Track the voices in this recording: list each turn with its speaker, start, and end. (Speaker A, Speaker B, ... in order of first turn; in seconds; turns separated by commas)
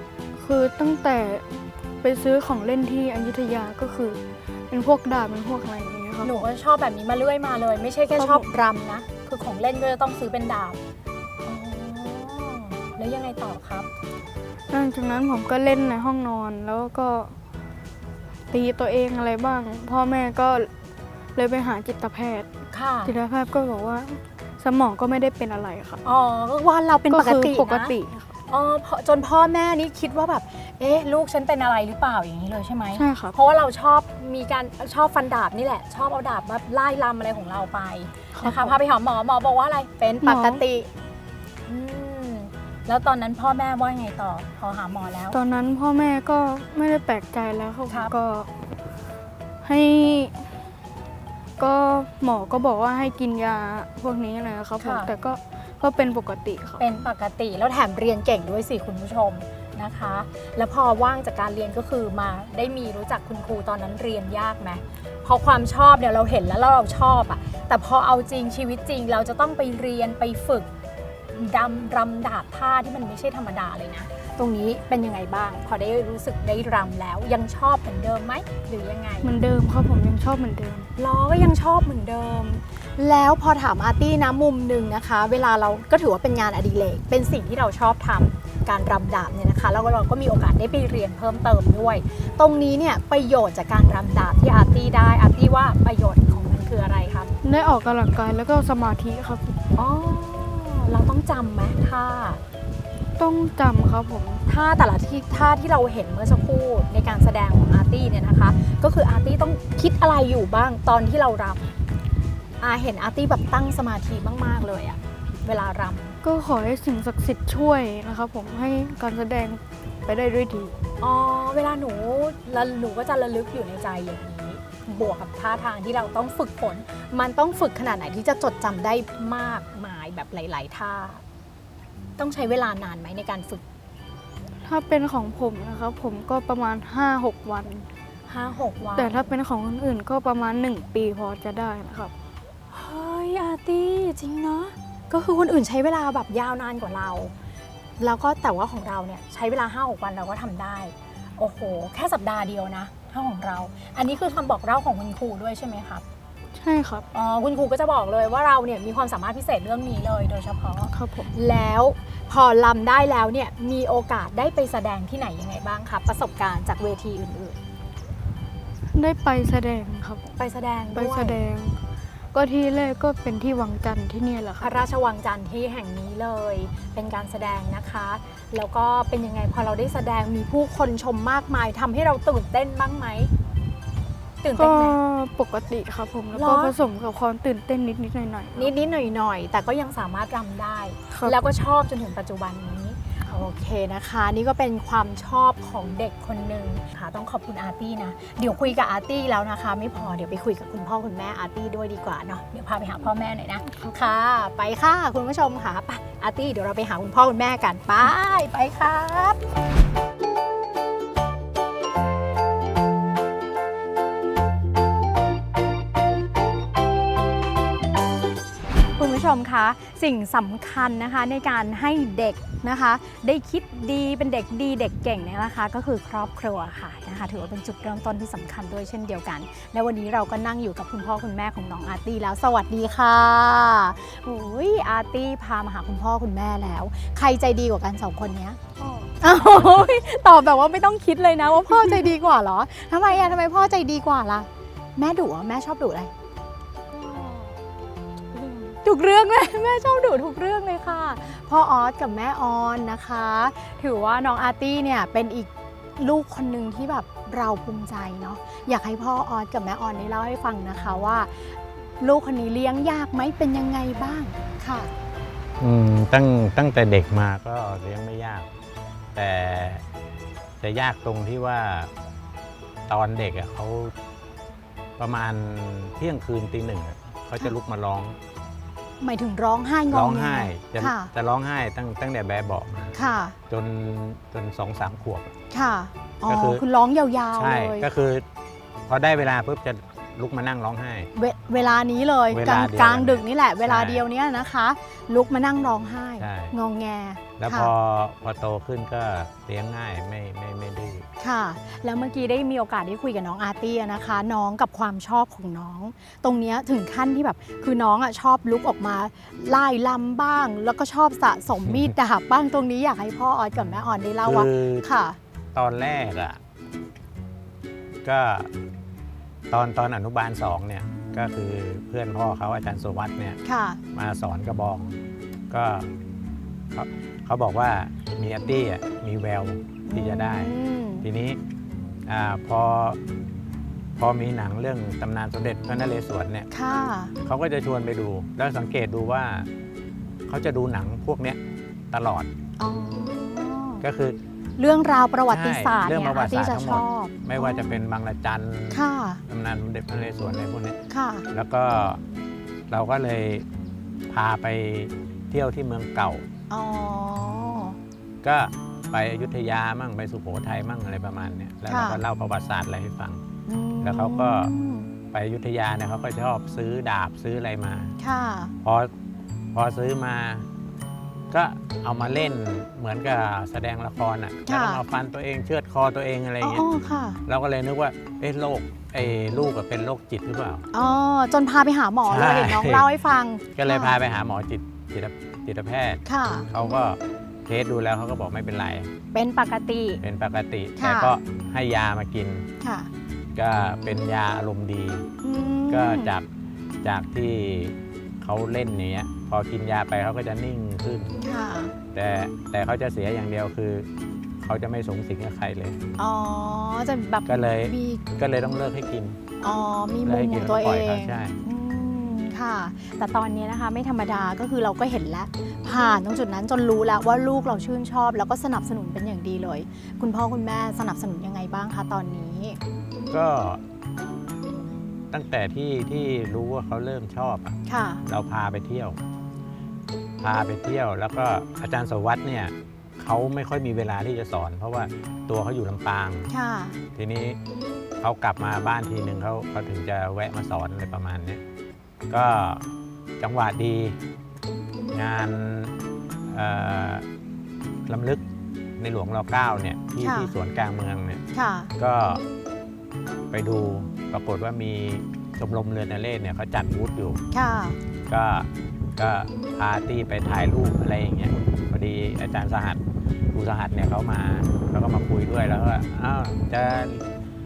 Speaker A: 0.4-6.3, Speaker B: 6.2-10.8, Speaker A: 8.2-8.4, Speaker B: 11.4-13.9, Speaker A: 14.7-17.3, Speaker A: 18.5-20.7, Speaker A: 21.3-22.5, Speaker B: 22.7-23.1, Speaker A: 23.0-26.0, Speaker B: 26.0-27.9, Speaker A: 27.1-28.3, Speaker B: 28.5-40.9, Speaker A: 32.9-33.4, Speaker A: 38.3-38.8, Speaker A: 40.2-40.6, Speaker B: 41.6-45.4, Speaker A: 45.3-48.5, Speaker A: 49.6-50.4, Speaker A: 51.6-56.8, Speaker B: 54.8-55.1, Speaker B: 56.8-70.7, Speaker B: 71.3-79.3, Speaker A: 79.2-80.9, Speaker B: 81.0-97.3, Speaker A: 97.4-99.6, Speaker B: 99.8-102.4, Speaker A: 103.2-104.4, Speaker B: 104.5-111.6, Speaker B: 112.6-116.2, Speaker A: 116.2-120.7, Speaker B: 121.0-131.2, Speaker B: 132.2-133.6, Speaker A: 134.6-137.9, Speaker B: 138.3-139.3, Speaker A: 138.9-142.1, Speaker B: 142.7-147.3, Speaker B: 148.0-156.0, Speaker A: 156.5-157.1, Speaker B: 157.1-167.6, Speaker A: 160.9-161.3, Speaker A: 168.9-170.4, Speaker B: 170.4-171.4, Speaker A: 170.9-171.8, Speaker A: 172.3-174.8, Speaker B: 174.6-183.3, Speaker B: 184.4-185.0, Speaker A: 184.6-188.7, Speaker B: 186.3-186.7, Speaker B: 188.6-209.4, Speaker A: 191.1-191.4, Speaker A: 203.7-204.0, Speaker B: 219.0-238.6, Speaker A: 238.8-239.1, Speaker B: 239.2-246.1, Speaker B: 248.7-264.9, Speaker C: 265.6-268.5, Speaker C: 269.1-269.8, Speaker C: 270.6-271.9, Speaker C: 272.9-273.9, Speaker C: 275.0-278.2, Speaker B: 279.0-281.1, Speaker C: 279.9-282.9, Speaker B: 282.9-283.4, Speaker C: 283.5-285.3, Speaker B: 285.5-287.9, Speaker C: 286.3-286.6, Speaker C: 287.3-288.2, Speaker C: 288.9-291.1, Speaker B: 291.1-297.7, Speaker C: 292.3-294.0, Speaker C: 296.2-296.5, Speaker C: 297.4-301.1, Speaker B: 301.2-315.2, Speaker C: 314.2-314.8, Speaker C: 315.5-316.4, Speaker C: 318.0-318.5, Speaker C: 319.5-323.4, Speaker B: 323.4-323.8, Speaker C: 323.9-324.9, Speaker C: 325.5-325.9, Speaker C: 326.7-331.4, Speaker B: 329.9-331.1, Speaker C: 332.1-333.0, Speaker C: 333.9-336.5, Speaker B: 336.5-337.1, Speaker C: 337.2-339.5, Speaker C: 340.3-341.4, Speaker C: 341.9-342.3, Speaker B: 342.6-343.8, Speaker C: 343.8-344.2, Speaker B: 344.6-347.8, Speaker C: 345.3-350.8, Speaker B: 348.7-349.2, Speaker B: 350.9-351.2, Speaker C: 351.3-352.0, Speaker C: 352.7-353.4, Speaker C: 354.1-356.2, Speaker B: 356.5-357.8, Speaker C: 358.2-363.2, Speaker B: 361.7-362.0, Speaker B: 363.4-364.9, Speaker C: 363.8-364.5, Speaker C: 365.1-367.9, Speaker B: 368.0-368.5, Speaker C: 368.6-368.9, Speaker C: 369.5-370.4, Speaker C: 371.3-376.6, Speaker B: 374.4-374.8, Speaker B: 376.4-377.2, Speaker C: 377.3-380.6, Speaker B: 380.7-383.9, Speaker C: 382.1-382.9, Speaker C: 383.5-388.9, Speaker B: 386.1-386.5, Speaker B: 389.1-390.0, Speaker C: 390.0-392.5, Speaker B: 390.8-391.1, Speaker B: 392.6-392.9, Speaker C: 393.4-395.1, Speaker B: 395.2-396.1, Speaker C: 395.7-396.2, Speaker C: 396.8-401.2, Speaker B: 401.2-401.7, Speaker C: 401.9-403.9, Speaker C: 404.4-405.8, Speaker B: 406.0-408.0, Speaker C: 407.2-409.2, Speaker B: 409.4-422.6, Speaker C: 410.0-411.4, Speaker C: 423.1-423.6, Speaker C: 425.1-429.0, Speaker B: 427.7-428.0, Speaker C: 430.2-436.3, Speaker B: 436.3-436.8, Speaker C: 436.9-437.4, Speaker C: 438.0-441.4, Speaker C: 442.1-442.6, Speaker C: 443.2-443.9, Speaker C: 444.9-445.7, Speaker C: 446.3-447.1, Speaker C: 447.9-448.2, Speaker C: 448.8-451.2, Speaker B: 450.0-450.3, Speaker B: 451.3-451.7, Speaker C: 451.8-452.2, Speaker C: 453.3-457.2, Speaker B: 457.3-457.8, Speaker C: 458.1-462.8, Speaker C: 463.3-467.0